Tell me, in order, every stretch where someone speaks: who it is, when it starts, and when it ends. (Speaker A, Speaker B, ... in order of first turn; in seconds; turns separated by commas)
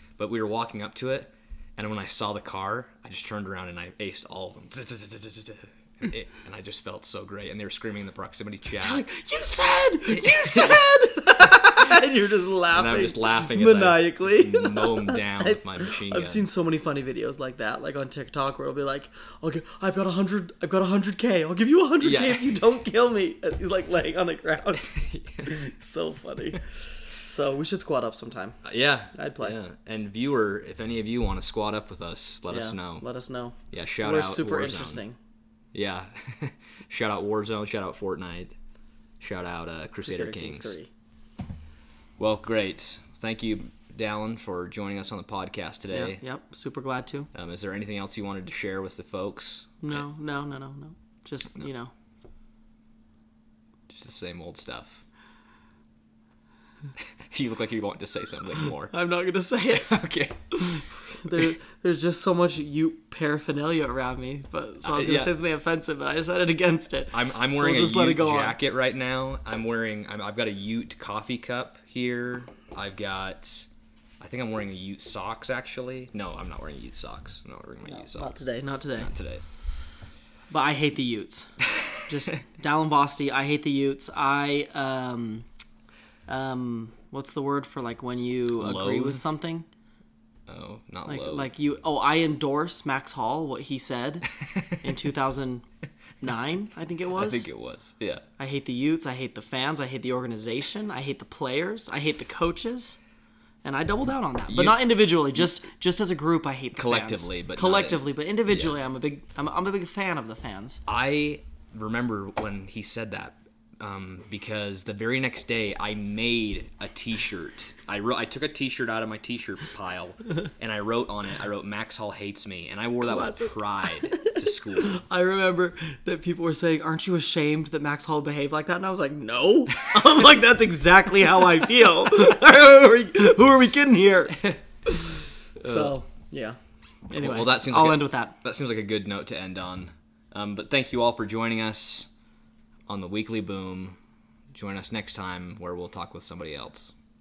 Speaker A: 0.2-9.1, Speaker B: 8.8-26.7, Speaker A: 10.1-12.0, Speaker A: 12.7-16.4, Speaker A: 22.0-22.6, Speaker A: 24.8-25.6, Speaker B: 27.2-28.6, Speaker A: 28.6-33.0, Speaker B: 29.1-29.6, Speaker B: 32.5-35.2, Speaker A: 33.7-35.0, Speaker A: 35.7-38.5, Speaker A: 39.2-40.8, Speaker B: 40.0-40.9, Speaker A: 42.2-46.2, Speaker B: 45.9-47.3, Speaker A: 47.3-50.0, Speaker B: 49.8-51.9, Speaker A: 53.9-55.0, Speaker A: 57.3-58.9, Speaker B: 58.9-60.0, Speaker A: 59.7-61.4, Speaker B: 60.5-68.6, Speaker A: 64.8-65.3, Speaker A: 67.1-73.7, Speaker A: 74.2-78.3, Speaker B: 77.9-79.1, Speaker A: 79.0-79.4, Speaker B: 80.5-81.5, Speaker A: 81.8-82.3, Speaker B: 82.1-85.5, Speaker B: 86.3-89.7, Speaker A: 88.5-89.2, Speaker A: 90.5-91.5, Speaker B: 91.0-94.3, Speaker A: 94.4-94.8, Speaker B: 94.8-95.6, Speaker B: 96.2-97.5, Speaker A: 97.1-98.2, Speaker B: 98.4-103.0, Speaker B: 103.6-110.8, Speaker A: 104.5-104.8, Speaker A: 106.7-108.8, Speaker A: 110.9-125.0, Speaker B: 123.0-136.6, Speaker A: 135.6-135.9, Speaker B: 137.1-138.3, Speaker A: 137.1-142.1, Speaker A: 142.9-144.0, Speaker A: 144.5-146.9